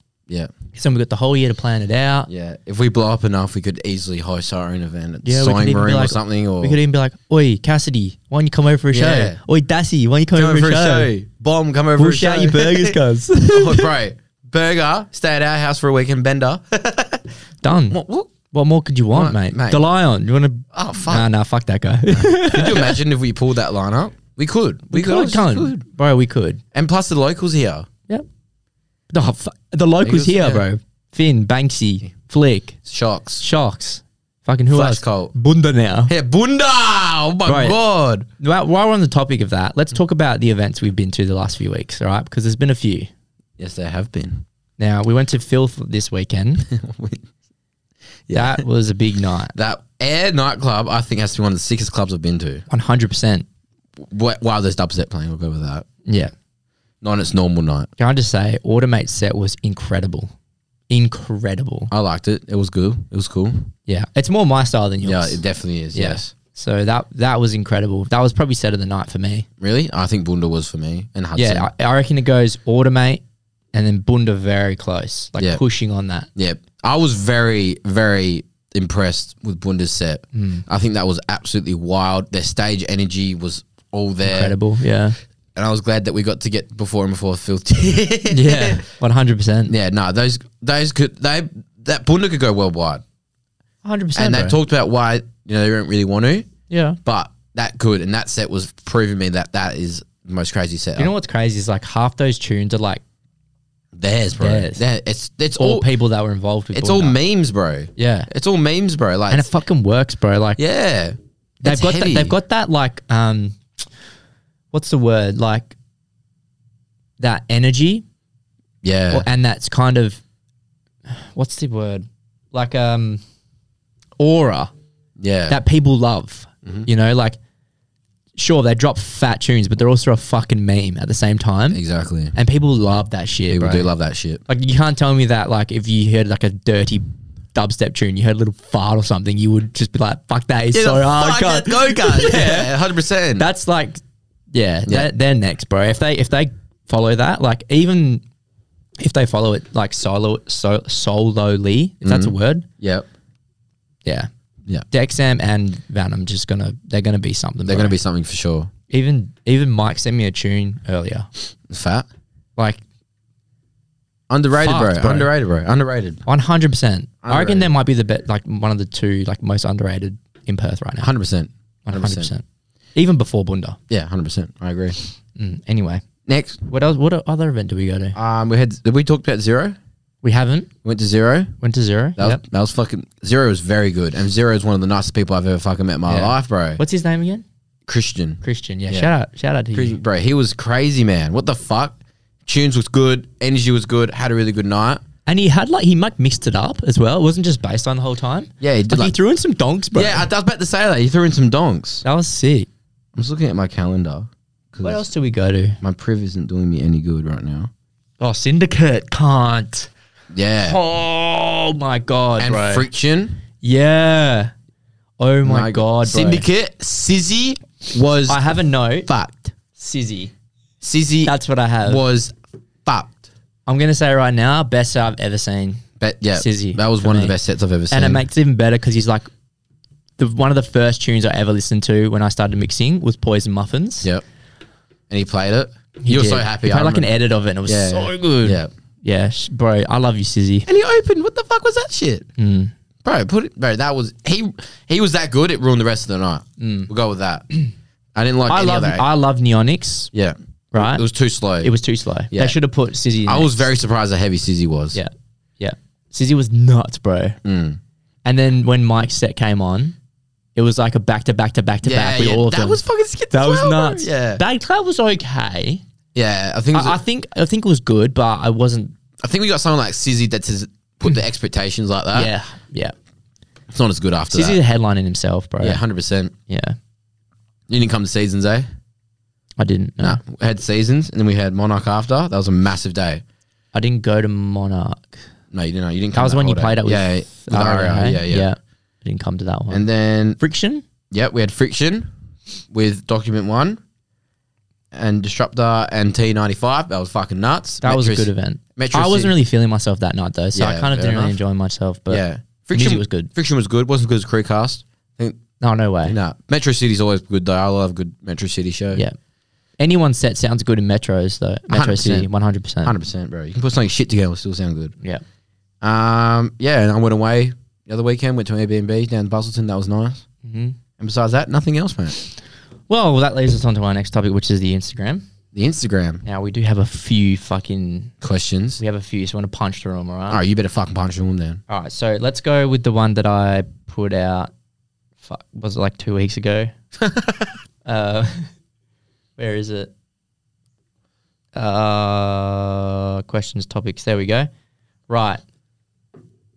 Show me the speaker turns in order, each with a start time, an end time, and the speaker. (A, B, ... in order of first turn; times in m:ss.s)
0:00.7-0:02.3 A
0:02.3-0:06.8 B
0:05.2-0:11.1 A
0:08.9-0:09.4 B
0:10.3-0:17.3 B
0:12.0-0:13.9 A
0:17.6-0:18.0 A
0:17.9-0:18.3 B
0:18.5-0:23.0 A
0:19.1-0:19.8 B
0:20.7-0:21.3 B
0:22.3-0:25.8 B
0:24.9-0:26.6 A
0:26.7-0:27.9 B
0:29.1-0:32.8 A
0:30.0-0:30.6 B
0:32.8-0:33.4 B
0:33.4-0:36.1 A
0:34.7-0:35.3 B
0:36.1-0:38.3 B
0:37.4-0:37.8 A
0:38.4-0:43.1 A
0:43.6-0:44.4 B
0:44.8-0:46.7 A
0:46.6-0:47.2 B
0:48.3-0:48.6 B
0:48.3-0:49.5 A
0:49.5-0:52.6 B
0:52.7-0:53.4 A
0:54.0-0:55.8 B
0:56.0-0:56.3 A
0:57.0-0:57.9 B
0:58.0-1:00.3 A
1:00.9-1:01.9 A
1:01.9-1:03.7 B
1:03.9-1:05.4 A
1:05.0-1:06.3 B
1:05.9-1:09.5 A
1:09.6-1:11.7 B
1:11.4-1:13.2 A
1:13.7-1:16.3 A
1:16.4-1:24.5 B
1:20.3-1:20.6 A
1:24.2-1:25.2 A
1:25.5-1:28.8 B
1:28.3-1:29.7 A
1:29.7-1:33.0 B
1:33.8-1:34.6 A
1:34.2-1:36.5 B
1:36.7-1:37.0 A
1:37.0-1:41.1 B
1:41.0-1:43.0 A
1:43.9-1:45.9 B
1:44.4-1:44.8 A
1:45.6-1:47.2 A
1:46.7-1:49.5 B
1:48.0-1:48.3 A
1:49.3-1:50.6 A
1:50.6-1:52.4 B
1:51.6-1:53.6 A
1:54.7-1:55.7 A
1:57.2-1:58.0 A
1:58.8-1:59.3 B
1:59.1-2:00.2 A
2:01.1-2:03.2 A
2:04.2-2:04.7 A
2:05.2-2:05.6 B
2:05.5-2:07.4 A
2:08.4-2:11.8 A
2:11.7-2:12.3 B
2:12.3-2:13.9 A
2:13.5-2:14.4 B
2:14.5-2:22.7 A
2:20.7-2:23.4 B
2:23.4-2:24.0 A
2:24.5-2:28.2 A
2:29.0-2:32.6 A
2:32.0-2:33.1 B
2:34.9-2:38.0 A
2:37.7-2:38.7 B
2:38.9-2:41.3 A
2:41.7-2:42.0 B
2:44.3-2:46.2 B
2:44.5-2:45.3 A
2:46.3-2:51.1 A
2:47.2-2:47.7 B
2:51.0-2:52.3 B
2:51.8-2:52.4 A
2:52.9-2:53.8 A
2:53.9-2:55.0 B
2:55.4-2:56.0 A
2:56.2-2:56.6 B
2:56.7-2:58.2 A
2:58.1-2:59.8 B
3:00.2-3:00.7 A
3:00.8-3:01.5 B
3:01.6-3:02.4 A
3:02.2-3:06.8 B
3:06.1-3:07.4 A
3:07.9-3:09.1 B
3:08.4-3:10.0 A
3:09.7-3:11.9 B
3:12.4-3:15.0 B
3:15.2-3:20.3 A
3:18.6-3:19.1 B
3:19.9-3:22.0 B
3:22.0-3:22.7 A
3:23.1-3:25.0 B
3:24.8-3:25.8 A
3:25.8-3:27.7 B
3:28.2-3:29.9 A
3:30.3-3:30.8 B
3:30.6-3:32.8 A
3:32.4-3:33.4 B
3:33.6-3:34.5 A
3:35.2-3:36.4 A
3:35.4-3:38.4 B
3:38.3-3:39.1 A
3:39.0-3:39.5 B
3:39.7-3:40.3 A
3:40.8-3:41.3 B
3:41.2-3:42.0 A
3:41.8-3:42.3 B
3:42.8-3:43.2 B
3:43.7-3:45.8 A
3:46.0-3:48.2 B
3:46.3-3:47.3 A
3:47.9-3:49.3 A
3:50.2-3:54.1 A
3:55.1-3:57.1 B
3:56.0-4:00.7 A
3:57.7-3:58.7 B
4:00.7-4:02.3 B
4:02.4-4:02.7 A
4:03.0-4:07.4 B
4:06.6-4:06.9 A
4:08.1-4:09.0 B
4:08.5-4:10.1 A
4:10.1-4:11.7 B
4:10.7-4:11.0 A
4:11.6-4:13.7 A
4:13.2-4:15.0 B
4:14.9-4:17.4 A
4:17.4-4:17.8 B
4:18.2-4:20.0 A
4:20.6-4:25.8 A
4:21.8-4:24.4 B
4:26.1-4:27.0 B
4:26.7-4:28.9 A
4:29.2-4:32.3 B
4:32.1-4:32.9 A
4:33.7-4:34.6 B
4:34.3-4:35.8 A
4:35.6-4:36.3 B
4:36.5-4:36.8 A
4:37.7-4:38.7 B
4:39.6-4:40.2 A
4:40.0-4:43.2 B
4:43.7-4:45.2 A
4:45.5-4:48.5 B
4:46.1-4:49.8 A
4:49.7-4:50.4 B
4:50.4-4:50.8 A
4:51.1-4:52.1 B
4:52.7-4:53.8 B
4:54.9-4:59.3 B
4:57.8-5:03.3 A
5:00.5-5:01.4 B
5:02.1-5:05.4 B
5:05.6-5:06.2 A
5:06.0-5:09.0 B
5:09.8-5:12.9 A
5:11.7-5:12.3 B
5:12.8-5:14.9 B
5:15.8-5:20.2 B
5:20.4-5:20.8 A
5:21.0-5:22.2 B
5:22.9-5:25.2 A
5:25.5-5:26.2 B
5:26.2-5:28.1 A
5:28.2-5:28.8 B
5:28.8-5:30.4 A
5:30.3-5:31.6 B
5:31.7-5:34.5 A
5:35.2-5:36.7 A
5:37.0-5:37.3 B
5:37.8-5:38.5 A
5:39.4-5:39.9 A
5:41.5-5:44.5 A
5:45.1-5:45.4 A